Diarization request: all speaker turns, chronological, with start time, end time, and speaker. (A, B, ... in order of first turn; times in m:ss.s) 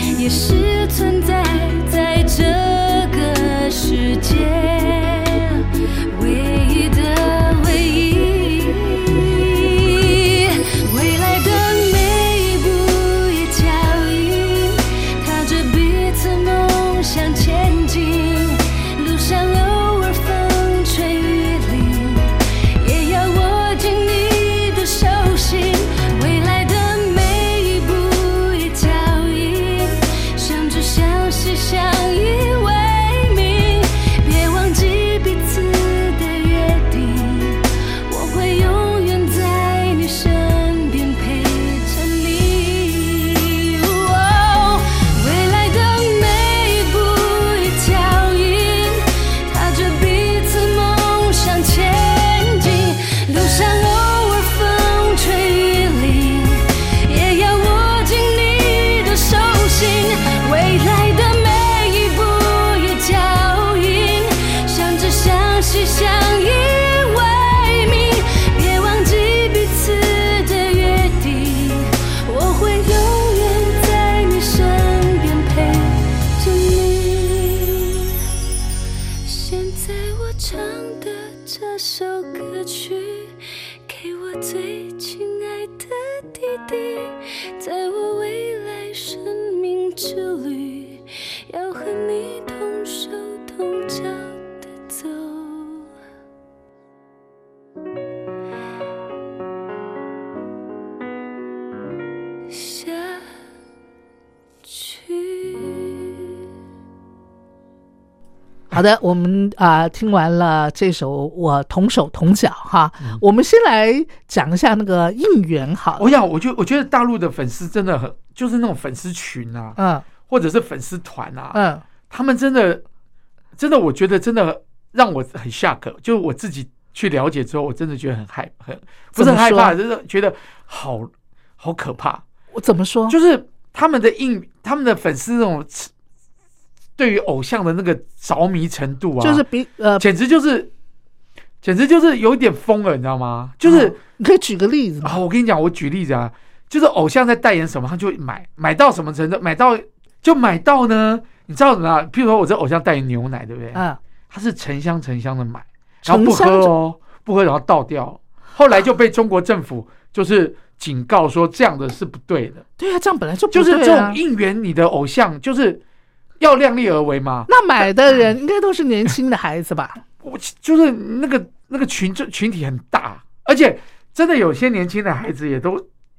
0:00.2-1:18.2 A
1:19.2-1:35.9 A
1:42.5-1:43.2 A
1:44.6-1:46.2 A
1:48.7-1:56.1 B
1:56.0-2:01.6 C
1:59.8-2:00.0 B
2:01.5-2:01.8 B
2:02.1-2:02.8 C
2:03.6-2:12.2 C
2:09.2-2:09.7 B
2:12.5-2:13.2 B
2:13.1-2:15.9 C
2:17.0-2:19.4 C
2:19.2-2:20.0 B
2:20.0-2:20.7 C
2:21.6-2:24.0 C
2:23.6-2:25.2 B
2:25.0-2:42.6 C
2:33.7-2:34.0 B
2:36.0-2:36.7 B
2:42.8-2:44.2 B
2:43.5-2:45.8 C
2:46.4-2:47.5 C
2:47.5-2:50.0 B
2:50.2-2:55.8 C